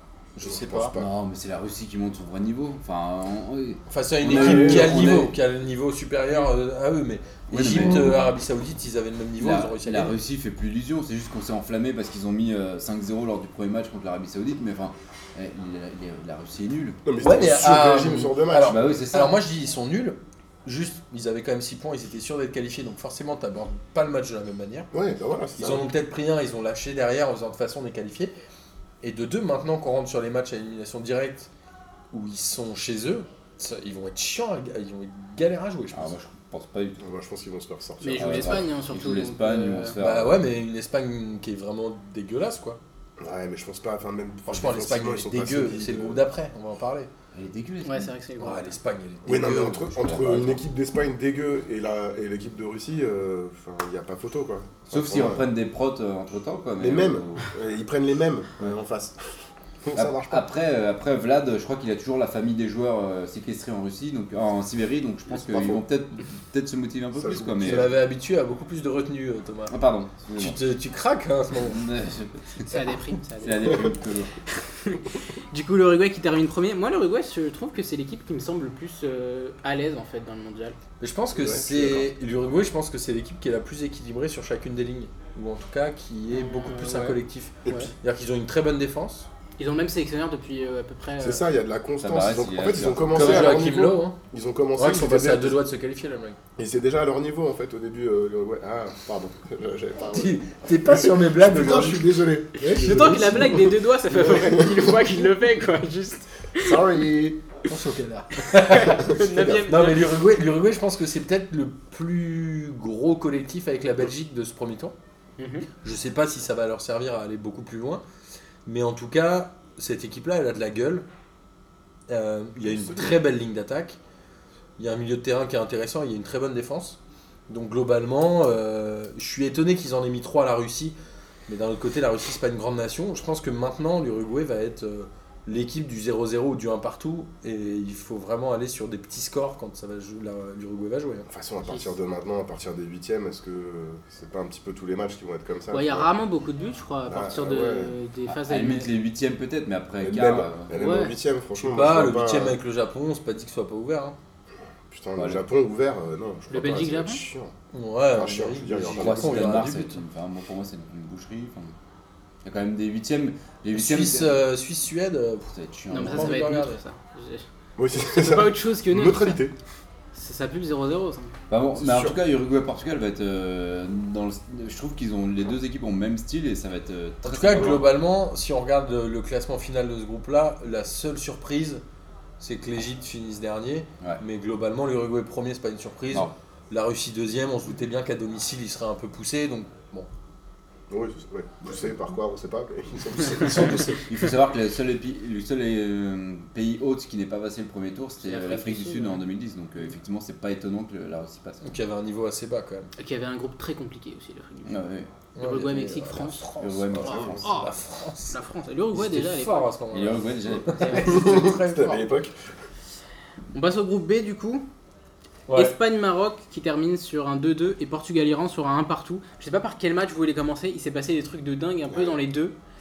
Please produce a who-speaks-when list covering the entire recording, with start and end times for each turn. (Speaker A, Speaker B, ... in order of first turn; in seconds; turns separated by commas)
Speaker A: 0.4-0.9, Speaker B: 0.4-1.1, Speaker C: 0.9-5.4, Speaker A: 3.9-10.2, Speaker B: 4.2-5.1, Speaker C: 7.5-8.3, Speaker C: 9.4-17.4, Speaker B: 17.1-18.9, Speaker A: 17.2-24.9, Speaker C: 18.6-19.4, Speaker B: 24.9-25.9, Speaker A: 25.6-28.3, Speaker A: 29.0-31.5, Speaker A: 32.1-36.1, Speaker C: 35.9-37.0, Speaker B: 37.0-38.7, Speaker D: 38.0-40.0, Speaker C: 38.2-40.5, Speaker A: 40.0-42.8, Speaker B: 43.2-46.2, Speaker A: 44.5-47.1, Speaker C: 47.3-48.1, Speaker D: 47.8-48.7, Speaker A: 48.4-50.1, Speaker B: 49.2-55.5, Speaker C: 50.0-50.6, Speaker C: 54.9-57.5, Speaker B: 56.8-59.2, Speaker B: 59.9-60.4, Speaker C: 60.0-67.9, Speaker B: 65.3-65.8, Speaker B: 67.2-67.9, Speaker A: 67.6-69.8, Speaker C: 69.7-70.6, Speaker A: 70.4-71.8, Speaker C: 71.6-72.8, Speaker D: 72.7-73.9, Speaker C: 73.4-74.3, Speaker D: 74.7-80.8, Speaker A: 81.0-89.3, Speaker B: 81.3-82.1, Speaker D: 86.3-87.9, Speaker D: 89.6-91.4, Speaker B: 91.2-95.6, Speaker C: 92.0-93.6, Speaker A: 93.1-94.2, Speaker A: 94.8-96.4, Speaker B: 96.6-103.5, Speaker A: 100.1-103.8, Speaker D: 102.7-106.8, Speaker B: 104.2-105.0, Speaker B: 106.6-107.4, Speaker A: 107.7-115.0, Speaker D: 108.5-110.1, Speaker B: 108.9-109.7, Speaker D: 115.4-115.7, Speaker A: 115.8-118.0, Speaker A: 118.7-121.1, Speaker A: 122.1-124.0, Speaker B: 122.6-123.2, Speaker A: 124.8-130.9, Speaker A: 131.5-141.3, Speaker B: 141.3-146.1, Speaker D: 145.7-148.9, Speaker B: 147.1-147.9, Speaker C: 148.3-150.7, Speaker B: 150.0-152.6, Speaker D: 150.7-151.1, Speaker A: 151.6-154.2, Speaker B: 154.9-157.5, Speaker C: 155.2-155.4, Speaker D: 156.5-157.2, Speaker A: 157.7-160.0, Speaker B: 158.1-159.7, Speaker C: 159.0-161.7, Speaker C: 162.4-164.3, Speaker A: 163.7-166.8, Speaker C: 165.5-166.4, Speaker D: 165.9-167.4, Speaker B: 167.8-169.5, Speaker D: 168.0-169.4, Speaker D: 170.2-171.4, Speaker C: 171.5-177.8, Speaker B: 171.8-172.2, Speaker A: 177.2-181.8, Speaker B: 177.5-177.8, Speaker A: 182.4-190.1, Speaker B: 190.9-193.9, Speaker A: 193.1-194.1, Speaker C: 194.1-201.8, Speaker D: 198.2-199.2, Speaker A: 201.6-202.9, Speaker D: 203.0-204.8, Speaker C: 204.7-205.1, Speaker A: 205.4-208.4, Speaker D: 205.4-206.4, Speaker C: 206.6-207.4, Speaker B: 206.9-207.4, Speaker D: 207.1-207.7, Speaker D: 208.3-209.7, Speaker A: 208.9-212.1, Speaker C: 209.9-211.1, Speaker B: 210.5-212.3, Speaker D: 210.8-211.1, Speaker D: 213.5-214.7, Speaker A: 215.5-215.8, Speaker D: 215.5-222.5, Speaker B: 221.9-222.2